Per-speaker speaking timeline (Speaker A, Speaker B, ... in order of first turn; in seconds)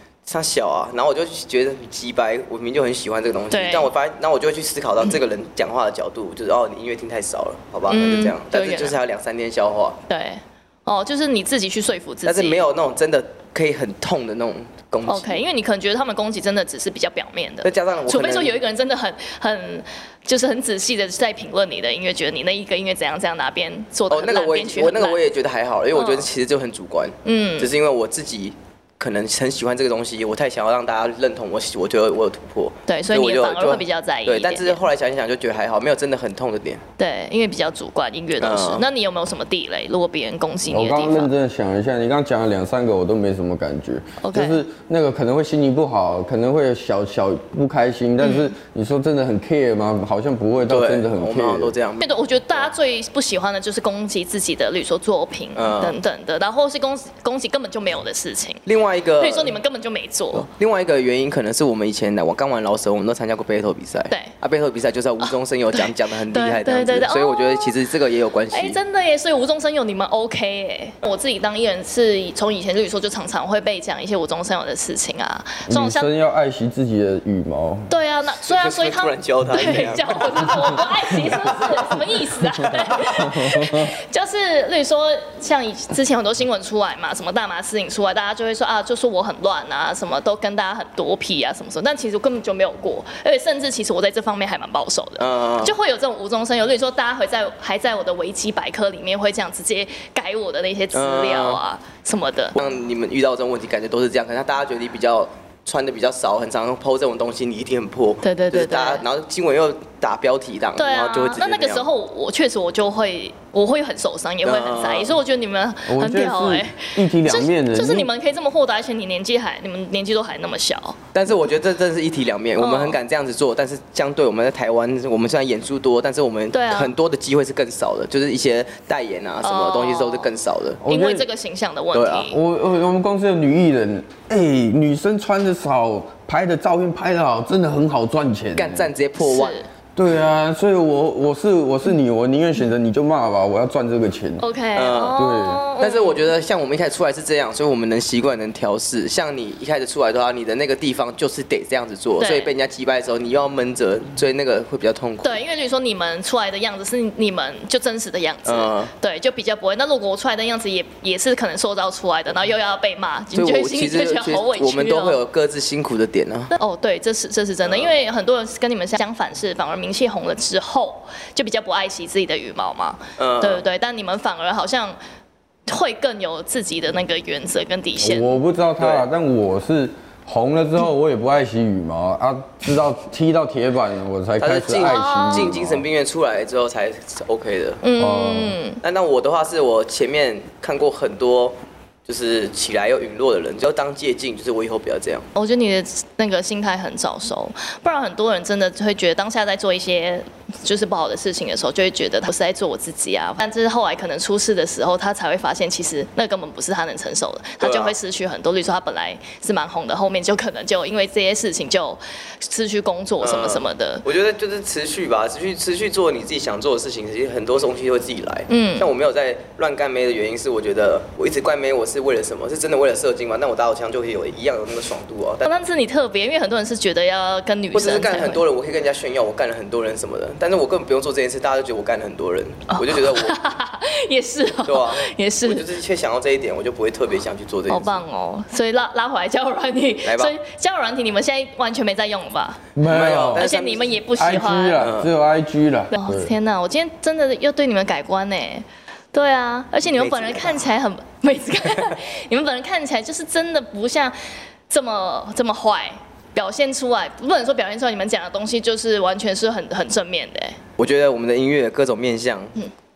Speaker A: 0.2-10.0, 12.2-15.4, 17.6-18.6, 24.1-36.8, 38.4-38.9, 50.6-52.7, 55.6-56.0, 58.6-59.6, 60.3-68.8, 78.3-81.8, 95.2-95.8, 100.9-101.6, 102.6-111.9, 114.4-115.2, 121.1-130.8, 131.9-132.3, 138.6-139.6, 144.8-145.2, 145.8-155.4, 158.5-158.9, 163.3-166.6, 167.6-167.9, 173.2-173.6, 178.8-179.1, 184.4-187.8, 188.8-191.6, 192.1-195.3, 207.6-208.0, 213.2-225.5, 227.7-233.4, 234.7-238.0, 240.1-240.3, 242.8-244.0, 244.8-245.1, 249.9-250.7, 260.8-262.6
Speaker B: 3.5-3.9, 7.9-9.0, 10.1-12.6, 15.1-25.2, 25.9-26.3, 27.2-27.7, 32.9-34.8, 37.0-41.3, 44.2-44.6, 48.2-48.5, 52.0-58.6, 59.2-60.5, 65.2-67.7, 68.5-76.1, 77.9-102.6, 108.2-109.0, 110.8-121.0, 122.6-123.0, 126.5-126.9, 129.4-130.3, 130.8-132.4, 139.2-139.7, 144.4-146.2, 152.2-152.5, 155.2-165.2, 166.6-175.0, 175.7-178.4, 184.8-185.5, 187.8-188.8, 195.3-214.1, 218.5-218.9, 225.4-228.4, 232.7-235.7, 237.7-244.8, 245.9-254.2, 254.7-260.6
Speaker C: 40.7-51.8, 75.7-78.0, 115.9-118.1, 130.8-131.2, 132.3-138.9, 140.0-144.4, 145.2-145.7, 178.0-185.9, 188.0-188.6, 242.8-243.4, 244.2-246.3